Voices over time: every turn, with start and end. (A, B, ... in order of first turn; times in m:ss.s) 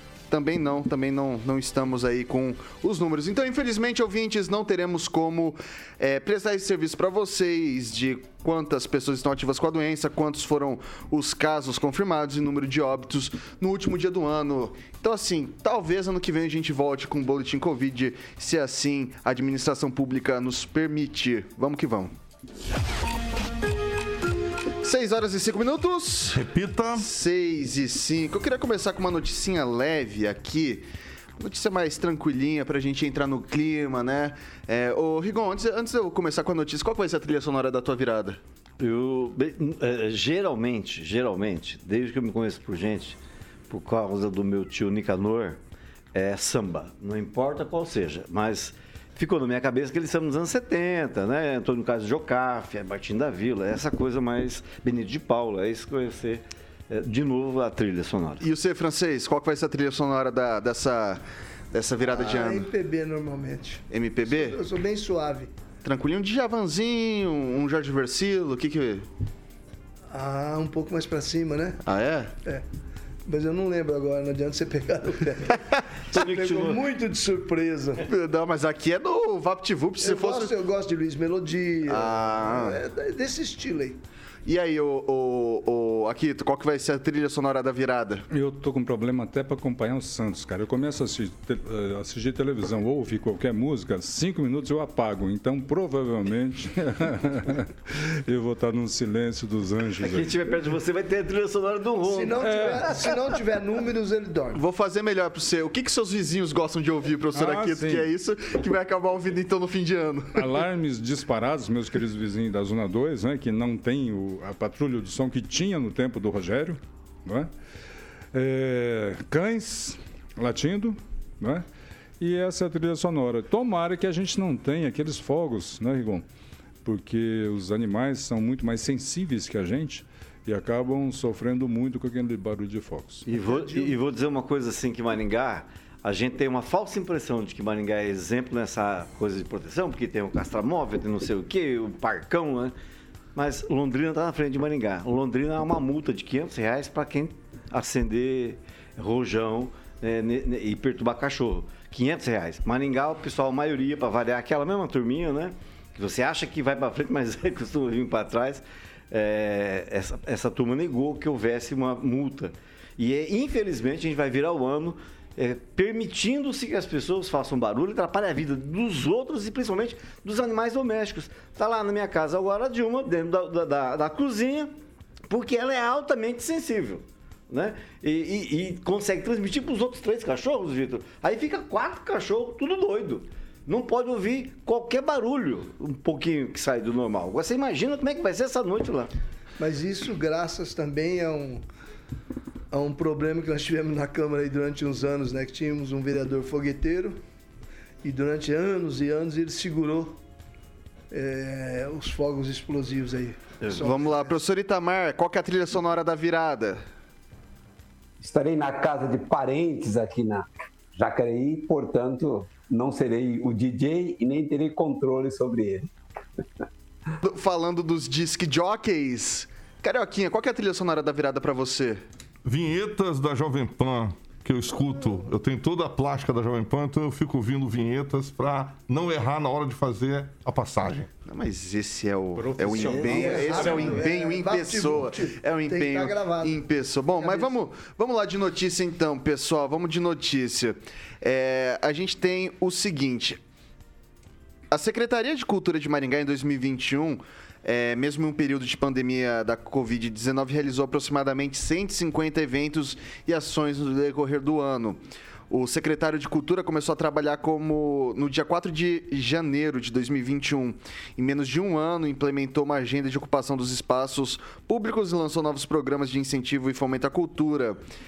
0:00.3-0:22.1 A
0:24.8-0:26.4 A
0:26.3-0:27.1 B
0:27.0-0:38.4 A
0:38.8-0:43.2 C
0:43.7-0:45.6 C
0:46.1-0:58.4 C
0:58.4-1:02.7 A
1:02.1-1:05.5 D
1:03.9-1:04.6 A
1:05.8-1:09.0 A
1:10.1-1:11.8 D
1:11.8-1:12.3 A
1:13.2-1:18.0 D
1:16.1-1:16.8 C
1:18.0-1:20.5 A
1:20.0-1:24.0 D
1:21.9-1:22.8 A
1:24.4-1:28.2 A
1:28.3-1:40.4 E
1:40.0-1:43.1 C
1:42.0-1:44.6 D
1:42.4-1:43.0 E
1:44.5-1:50.6 A
1:47.3-1:48.1 E
1:50.4-1:57.5 E
1:58.3-2:01.6 E
2:02.2-2:06.2 E
2:06.8-2:13.3 E
2:13.3-2:22.7 C
2:13.3-2:14.0 D
2:23.3-2:54.7 C
2:55.3-3:09.1 C
3:09.6-3:11.6 D
3:12.7-3:17.2 D
3:18.0-3:20.2 D
3:21.1-3:24.4 D
3:23.7-3:26.8 A
3:28.2-3:35.9 F
3:37.2-3:42.0 A
3:42.4-3:51.1 B
3:51.2-4:03.4 A
3:52.3-3:54.1 E
3:52.9-3:57.6 D
4:04.7-4:27.8 A